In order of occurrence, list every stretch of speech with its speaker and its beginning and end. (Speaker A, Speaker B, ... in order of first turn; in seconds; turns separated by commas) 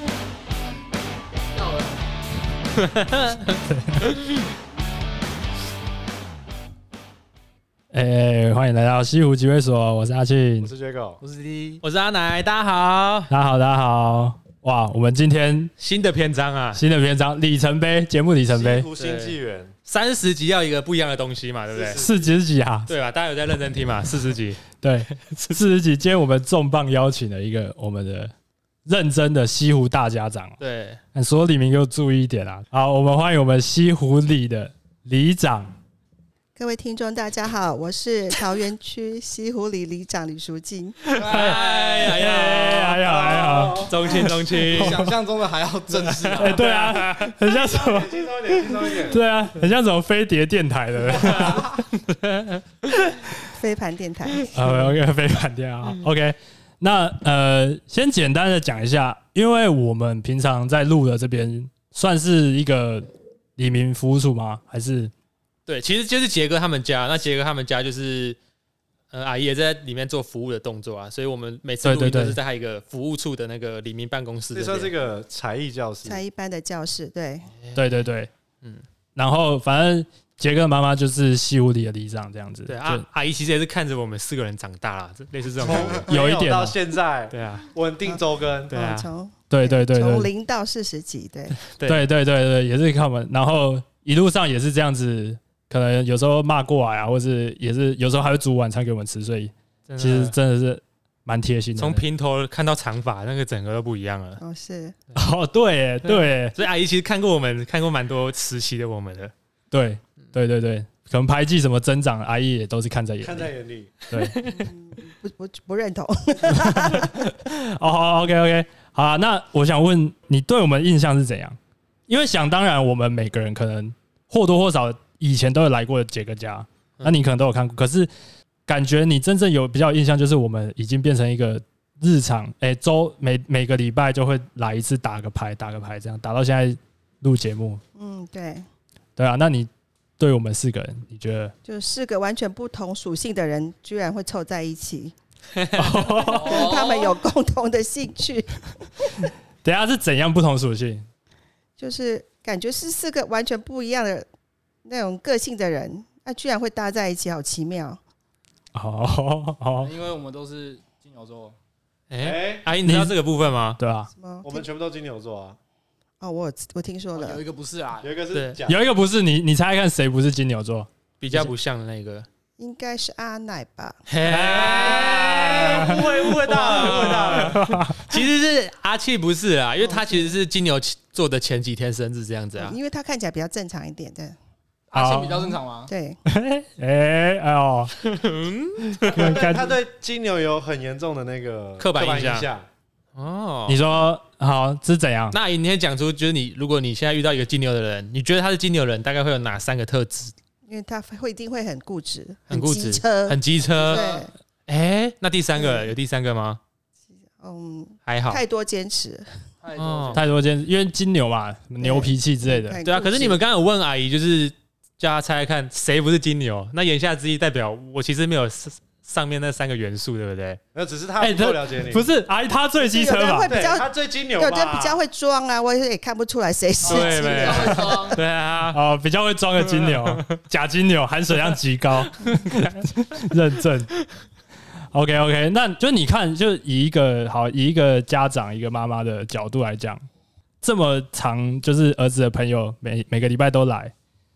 Speaker A: 1.5-2.0, Speaker B: 2.8-4.3, Speaker C: 3.7-4.1, Speaker C: 7.9-10.7, Speaker D: 10.6-11.2, Speaker B: 11.2-13.3, Speaker A: 11.5-11.8, Speaker C: 13.3-15.7, Speaker B: 15.8-16.8, Speaker C: 16.7-18.9, Speaker D: 18.5-19.7, Speaker B: 18.9-22.0, Speaker D: 21.7-22.3, Speaker C: 22.0-22.9, Speaker B: 22.9-24.6, Speaker C: 24.8-28.3, Speaker C: 28.9-30.6, Speaker B: 30.6-31.0, Speaker C: 31.1-35.7, Speaker E: 36.5-41.0, Speaker B: 41.1-45.0, Speaker A: 41.2-42.2, Speaker C: 41.2-45.1, Speaker D: 43.0-44.2, Speaker A: 44.6-47.1, Speaker B: 46.0-47.0, Speaker C: 46.4-51.9, Speaker D: 47.4-49.2, Speaker B: 51.1-52.5, Speaker E: 53.5-54.6, Speaker C: 54.5-65.1, Speaker B: 65.7-68.4, Speaker B: 69.1-74.9, Speaker C: 71.8-72.4, Speaker D: 74.5-76.2, Speaker E: 76.0-77.5, Speaker C: 77.7-78.3, Speaker C: 79.2-83.0, Speaker B: 82.7-86.0, Speaker D: 85.6-88.7, Speaker C: 86.1-86.8, Speaker B: 87.3-87.7, Speaker E: 88.0-91.6, Speaker B: 88.7-89.1, Speaker C: 89.5-90.3, Speaker B: 91.7-92.0, Speaker C: 91.8-102.0, Speaker B: 99.9-100.3, Speaker B: 101.8-104.4, Speaker E: 104.4-105.0, Speaker C: 105.1-106.5, Speaker B: 106.0-109.3, Speaker C: 109.7-113.5, Speaker D: 113.2-113.9, Speaker C: 114.1-114.4, Speaker B: 114.1-114.7, Speaker E: 114.4-117.2, Speaker C: 116.5-121.6, Speaker C: 122.1-128.1, Speaker C: 128.7-137.8, Speaker E: 137.9-138.7, Speaker C: 139.2-141.5, Speaker E: 141.6-145.1, Speaker B: 145.6-145.9, Speaker C: 145.7-146.7, Speaker A: 146.2-147.2, Speaker E: 146.3-148.6, Speaker C: 149.6-151.1, Speaker E: 151.8-154.3, Speaker E: 154.8-158.0, Speaker C: 158.7-159.9, Speaker A: 159.8-161.6, Speaker B: 162.1-163.8, Speaker D: 162.2-162.6, Speaker C: 162.8-163.1, Speaker C: 163.8-164.1, Speaker E: 164.1-164.7, Speaker D: 164.4-165.6, Speaker E: 166.2-167.4, Speaker A: 167.1-168.1, Speaker D: 168.0-168.8, Speaker B: 168.3-168.6, Speaker C: 168.7-171.5, Speaker B: 171.2-172.3, Speaker E: 172.6-174.0, Speaker B: 174.1-182.8, Speaker C: 174.2-176.0, Speaker D: 174.3-177.6, Speaker C: 176.8-178.2, Speaker E: 179.8-180.3, Speaker E: 182.6-184.3, Speaker A: 184.9-185.9, Speaker C: 184.9-185.6, Speaker E: 185.9-186.2, Speaker C: 186.2-187.9, Speaker B: 188.0-189.4, Speaker C: 188.9-189.8, Speaker D: 189.1-192.7, Speaker B: 191.8-192.5, Speaker B: 193.2-193.8, Speaker C: 193.7-195.4, Speaker B: 195.3-200.3, Speaker E: 200.7-204.3, Speaker B: 202.5-204.1, Speaker A: 203.8-204.2, Speaker B: 204.7-206.6, Speaker E: 205.5-205.9, Speaker E: 207.4-209.3, Speaker B: 208.1-208.4, Speaker A: 209.6-210.2, Speaker B: 209.7-210.2, Speaker C: 210.1-212.8, Speaker E: 211.8-213.4, Speaker B: 212.8-220.6, Speaker D: 220.7-222.1, Speaker C: 221.2-223.5, Speaker E: 222.8-228.2, Speaker D: 223.4-225.0, Speaker A: 226.8-228.2, Speaker B: 226.8-228.8, Speaker C: 228.7-233.9, Speaker B: 229.7-230.2, Speaker B: 232.2-232.7, Speaker C: 234.9-240.0, Speaker C: 240.6-243.9